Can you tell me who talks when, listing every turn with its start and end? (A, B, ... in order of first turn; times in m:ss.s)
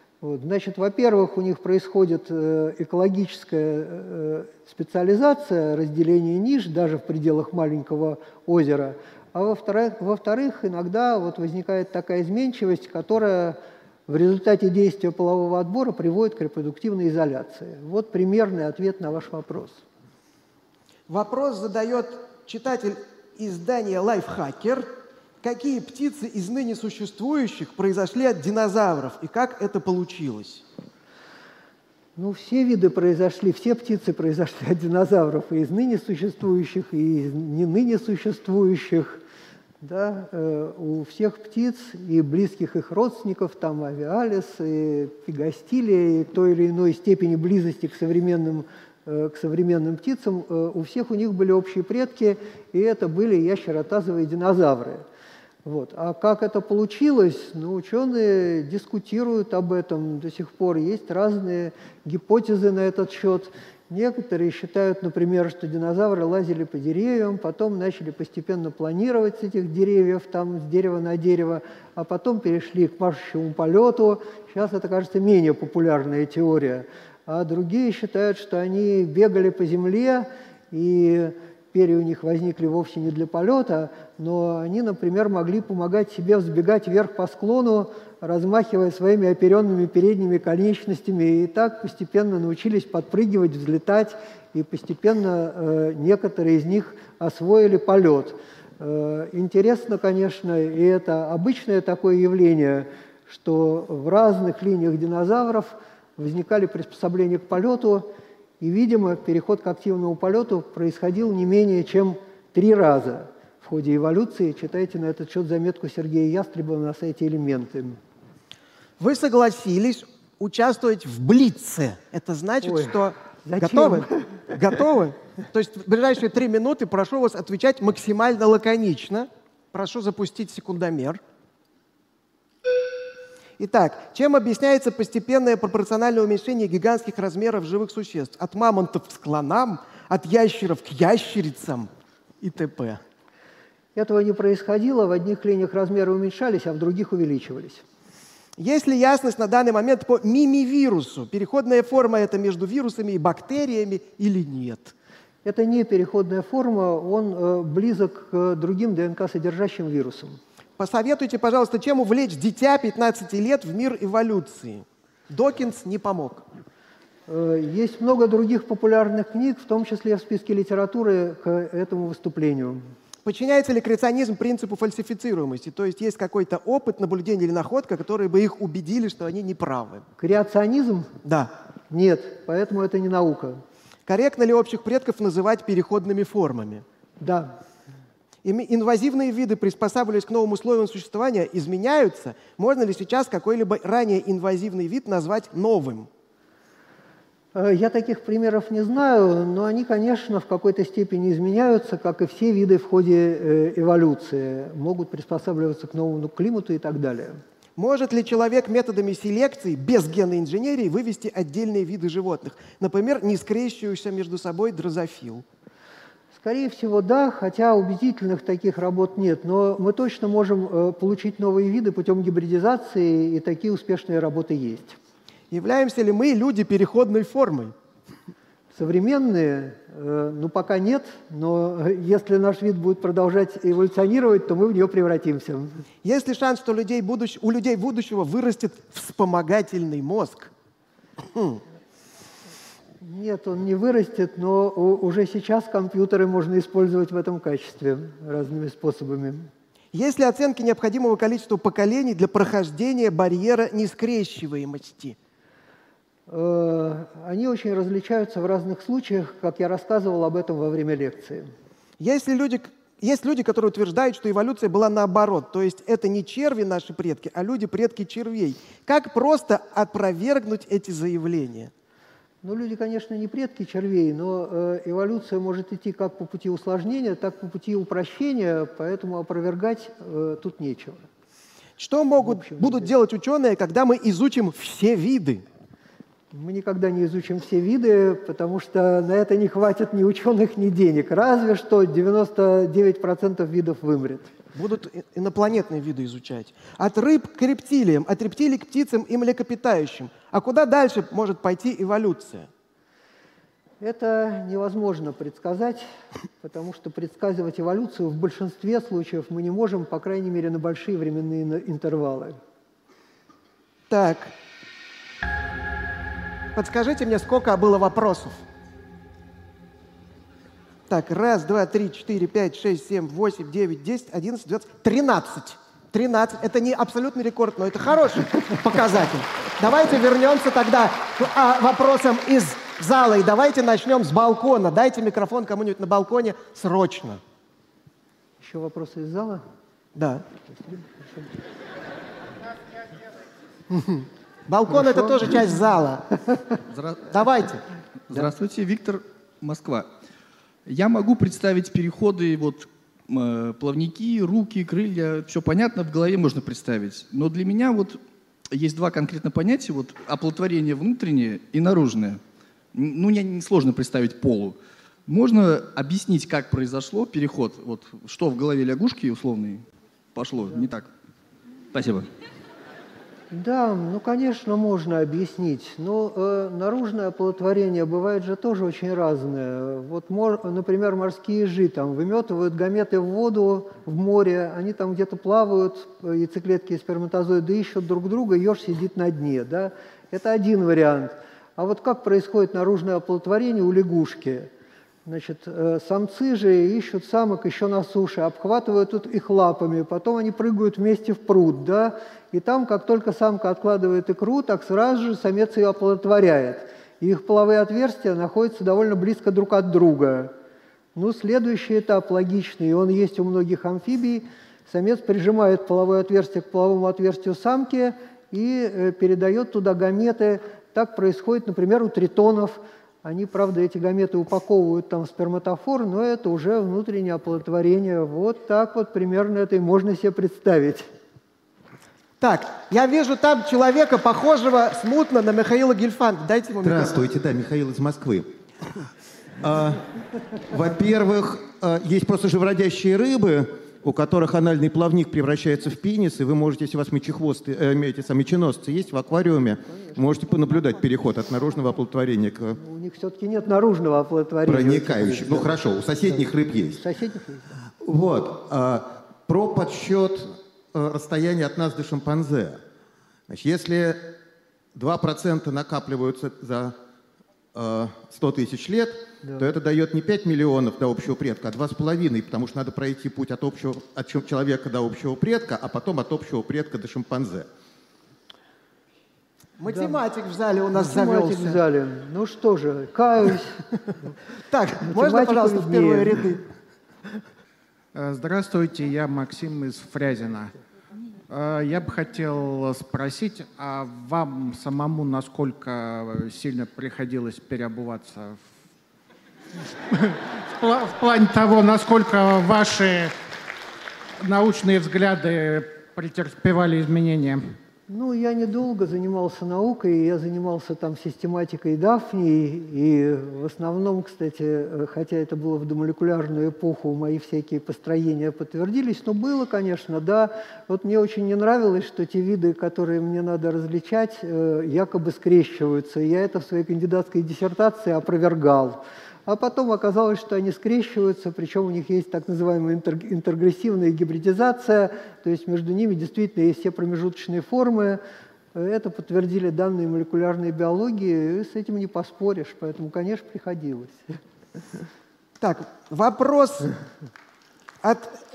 0:00.2-0:19.8 A
0:21.1-0:24.9 B
0:25.4-0:30.6 B
0:32.2-0:39.2 A
0:39.8-0:55.0 A
0:55.6-1:48.1 A
1:48.6-1:58.0 A
1:59.0-2:11.2 B
2:02.6-2:04.5 A
2:13.6-2:23.0 B
2:24.0-2:27.8 A
2:28.6-2:34.9 B
2:35.4-2:40.4 A
2:40.8-2:46.4 B
2:47.3-2:52.9 A
2:53.2-3:00.0 B
3:00.2-3:01.1 A
3:01.2-3:01.5 B
3:01.9-3:03.6 A
3:04.0-3:06.8 B
3:07.2-3:07.6 A
3:08.4-3:16.1 B
3:17.5-3:27.4 A
3:27.8-3:35.4 B
3:36.3-3:45.0 A
3:45.5-3:47.7 B
3:48.7-3:55.8 A
3:56.0-4:00.5 B
4:01.3-4:01.6 B
4:03.0-4:09.5 A
4:09.9-4:15.2 B
4:16.3-4:21.5 A
4:22.0-4:31.7 B
4:32.4-4:41.0 A
4:41.8-4:45.4 B
4:42.2-4:42.9 A
4:46.3-4:54.3 A
4:54.5-5:02.5 B
5:03.8-5:05.8 A
5:06.4-5:12.4 A
5:13.9-5:14.3 B
5:16.5-5:18.4 B
5:20.9-5:37.2 B
5:38.4-5:39.4 A
5:39.9-5:40.2 B
5:40.5-5:41.4 A
5:43.7-5:44.0 A
5:44.5-5:46.1 B
5:44.7-5:45.3 A
5:46.7-5:47.1 C
5:47.1-5:47.6 B
5:48.1-5:49.9 C
5:50.6-5:58.0 C
5:58.5-6:02.2 C
6:02.7-6:10.9 C
6:11.7-6:12.1 C
6:13.3-6:34.5 A
6:35.0-6:50.3 A
6:50.9-7:10.9 A
7:12.2-7:17.0 B
7:16.6-7:18.3 D
7:19.4-7:19.9 D
7:20.4-7:32.6 D
7:32.6-7:37.6 A
7:34.4-7:36.8 D
7:37.8-7:42.6 D
7:43.3-7:44.2 D
7:44.7-7:46.7 D
7:47.5-7:57.5 D
7:59.6-8:01.6 B
7:59.7-8:00.0 A
8:00.7-8:03.6 A
8:04.5-8:06.4 B
8:04.8-8:06.2 A
8:07.9-8:10.5 E
8:11.3-8:18.4 E
8:19.9-8:23.1 E
8:24.2-8:27.5 E
8:27.9-8:58.0 A
8:58.5-9:04.2 A
9:05.4-9:06.7 B
9:07.8-9:08.2 B